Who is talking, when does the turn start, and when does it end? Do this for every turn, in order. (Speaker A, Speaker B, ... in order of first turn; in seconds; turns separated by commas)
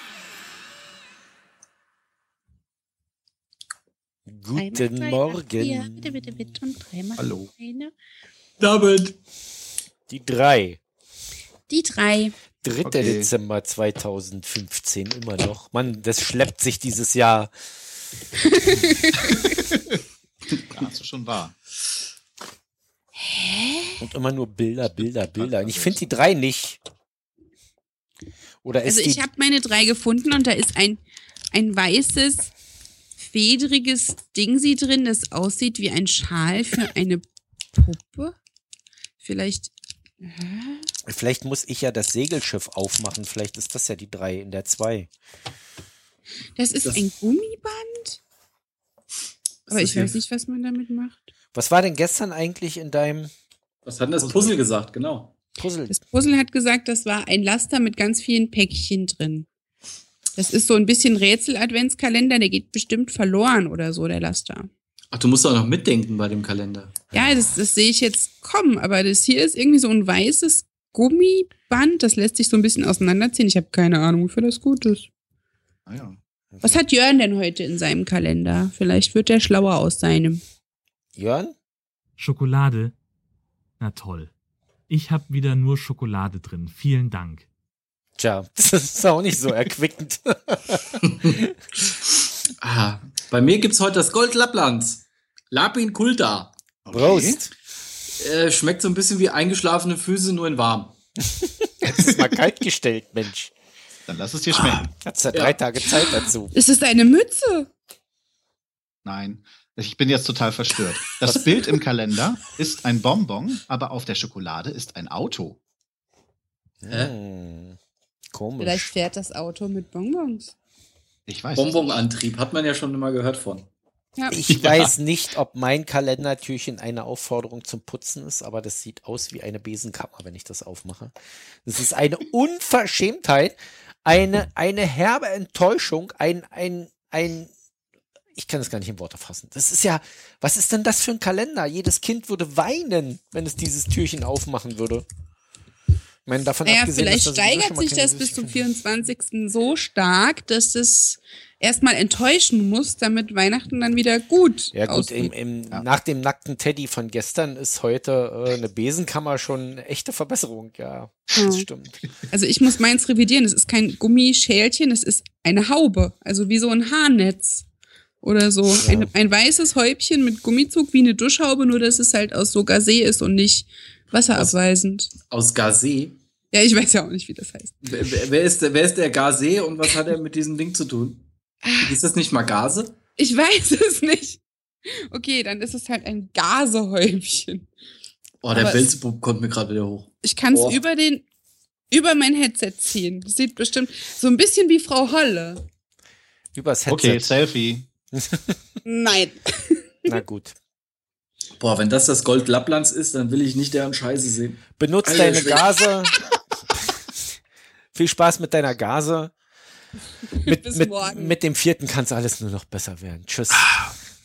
Speaker A: 4.3-6.4, Speaker B: 4.5-7.9, Speaker C: 7.2-7.5, Speaker D: 8.6-9.1, Speaker A: 10.1-10.8, Speaker B: 11.7-12.3, Speaker A: 12.6-17.5, Speaker C: 12.8-13.3, Speaker B: 18.4-19.6, Speaker C: 20.7-21.5, Speaker B: 23.2-24.0, Speaker A: 24.0-26.8, Speaker C: 25.4-26.0, Speaker A: 28.6-29.2, Speaker B: 28.8-32.5, Speaker B: 33.2-37.2, Speaker B: 37.7-38.4, Speaker B: 39.2-40.9, Speaker A: 41.0-45.1, Speaker B: 46.5-48.2, Speaker D: 49.7-50.1, Speaker B: 49.7-51.3, Speaker A: 51.5-53.3, Speaker D: 53.9-55.3, Speaker A: 54.2-54.5, Speaker A: 55.6-56.0, Speaker B: 55.9-59.5, Speaker B: 60.4-64.7, Speaker D: 65.1-66.9, Speaker B: 67.1-75.1, Speaker C: 75.9-76.2, Speaker A: 76.5-76.8, Speaker B: 76.6-80.4, Speaker A: 81.2-81.5, Speaker E: 82.2-83.0, Speaker E: 83.8-84.3, Speaker E: 84.9-87.5, Speaker A: 88.2-91.5, Speaker D: 91.1-91.4, Speaker D: 92.6-96.5, Speaker C: 96.8-97.4, Speaker A: 96.9-97.5, Speaker D: 98.2-100.9, Speaker A: 101.3-103.5, Speaker C: 104.1-104.9, Speaker A: 104.9-106.5, Speaker D: 105.3-105.6, Speaker B: 106.5-107.7, Speaker C: 109.0-115.6, Speaker A: 111.2-111.5, Speaker A: 116.8-117.8, Speaker A: 118.3-119.0, Speaker B: 118.6-120.5, Speaker C: 121.3-122.1, Speaker D: 121.5-123.7, Speaker A: 124.3-131.1, Speaker D: 124.5-124.9, Speaker A: 131.6-137.5, Speaker A: 138.3-145.1, Speaker A: 146.2-148.6, Speaker B: 146.6-155.3, Speaker A: 154.7-162.0, Speaker B: 161.4-161.7, Speaker B: 162.3-167.7, Speaker B: 168.2-175.1, Speaker A: 168.8-169.1, Speaker D: 175.3-176.2, Speaker B: 176.5-177.9, Speaker D: 177.8-181.2, Speaker B: 181.6-181.9, Speaker D: 181.8-182.9, Speaker B: 183.2-187.7, Speaker D: 188.4-190.8, Speaker B: 188.5-188.9, Speaker B: 190.2-191.2, Speaker B: 191.9-195.6, Speaker A: 196.5-197.3, Speaker C: 196.9-197.8, Speaker A: 198.1-198.6, Speaker B: 198.8-200.2, Speaker A: 200.1-200.6, Speaker D: 201.6-205.7, Speaker A: 204.8-206.2, Speaker A: 207.9-209.3, Speaker B: 210.3-211.4, Speaker A: 210.4-213.8